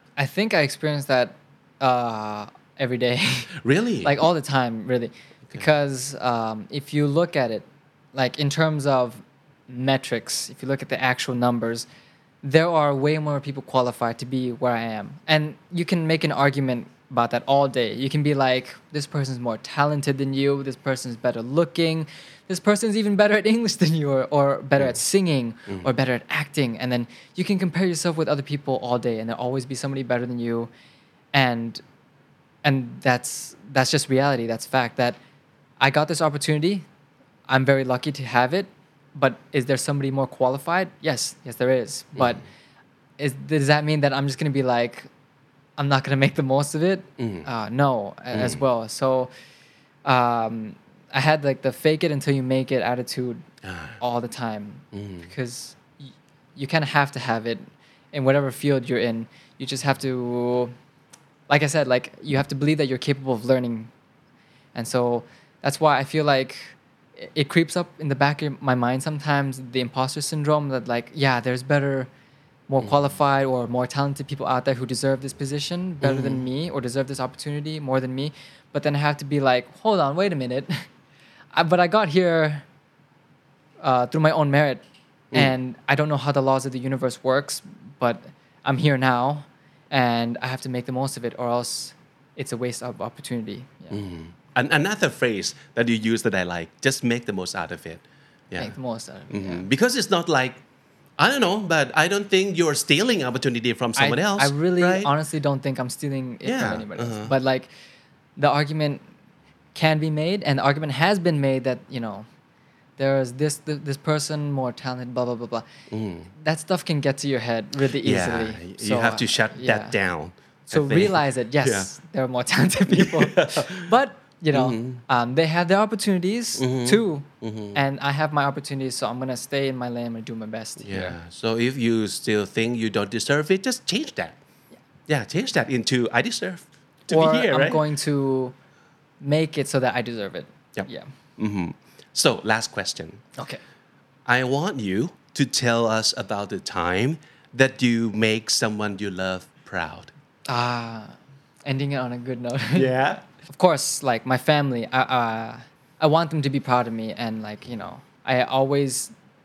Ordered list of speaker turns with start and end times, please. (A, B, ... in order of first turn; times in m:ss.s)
0:00.2-0:11.9 A
0:03.6-0:04.2 B
0:12.4-0:30.7 A
0:31.3-0:31.8 A
0:32.6-0:35.2 A
0:35.8-0:36.9 A
0:37.5-0:42.4 A
0:42.2-0:42.4 B
0:43.2-0:45.1 A
0:45.8-0:49.3 A
0:47.2-0:47.5 B
0:48.3-0:48.6 B
0:50.0-0:53.4 A
0:53.6-0:54.0 B
0:54.0-1:00.7 A
0:54.9-0:55.3 B
1:01.5-1:03.9 A
1:04.8-1:12.1 A
1:12.7-1:20.8 A
1:16.0-1:16.5 B
1:21.5-1:22.6 A
1:23.8-1:24.8 A
1:25.3-1:34.0 A
1:33.9-1:38.8 B
1:38.6-1:39.6 A
1:39.3-1:40.6 B
1:41.2-1:45.1 B
1:44.0-1:47.7 A
1:46.4-1:47.4 B
1:48.4-1:49.0 A
1:49.8-1:52.3 A
1:53.0-1:55.7 A
1:55.9-1:56.3 B
1:56.3-2:00.0 A
1:58.0-2:01.9 B
2:00.7-2:11.2 A
2:02.9-2:03.9 B
2:04.5-2:05.0 B
2:06.6-2:07.8 B
2:10.8-2:14.4 B
2:15.1-2:17.8 B
2:17.1-2:18.5 A
2:19.2-2:21.1 A
2:20.8-2:23.2 B
2:23.4-2:23.6 A
2:24.3-2:30.1 B
2:30.5-2:39.1 A
2:32.8-2:33.2 B